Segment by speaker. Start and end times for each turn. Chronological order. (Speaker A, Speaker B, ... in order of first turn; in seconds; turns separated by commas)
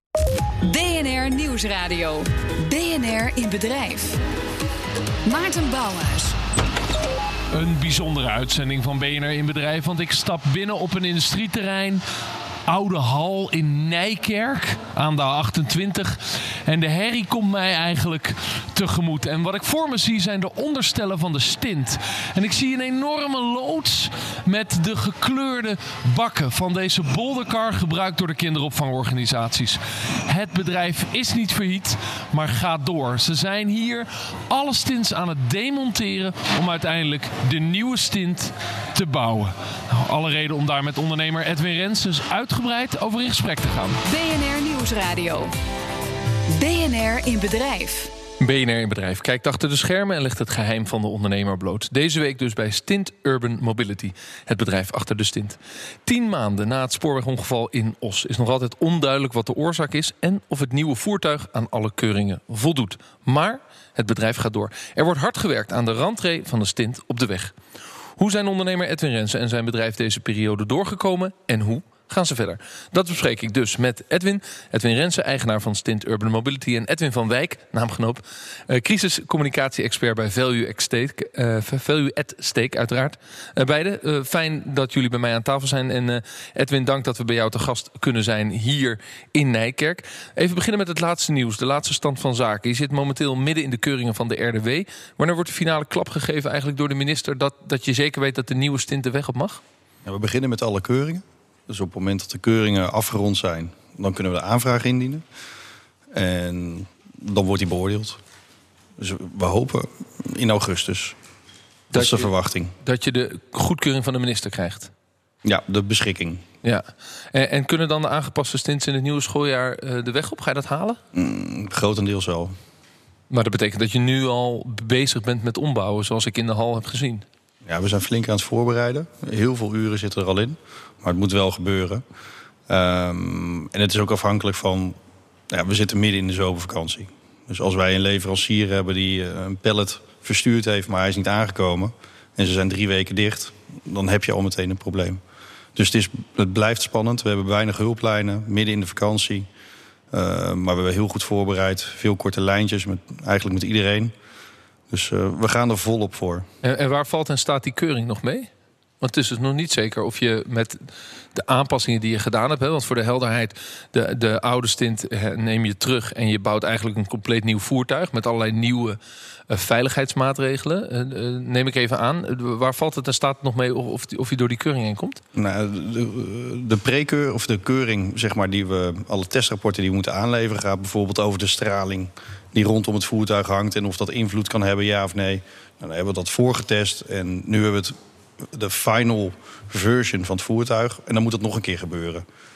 Speaker A: 0.6-4.2, Speaker A: 5.2-6.3, Speaker B: 7.5-12.0, Speaker B: 12.7-44.0, Speaker A: 44.0-45.5, Speaker A: 46.5-48.1, Speaker B: 48.4-67.5, Speaker B: 68.2-99.6, Speaker C: 100.0-105.2, Speaker C: 106.1-108.2, Speaker C: 109.0-111.1, Speaker C: 111.9-112.7, Speaker B: 111.9-114.9, Speaker C: 115.4-116.4, Speaker B: 116.6-121.0, Speaker C: 121.1-122.5, Speaker B: 123.3-127.2, Speaker C: 127.7-132.0, Speaker C: 132.7-134.9, Speaker C: 135.5-145.2, Speaker C: 145.8-149.5, Speaker C: 150.1-154.1, Speaker C: 154.9-156.5, Speaker B: 156.6-158.5, Speaker B: 159.0-175.2, Speaker C: 175.3-192.2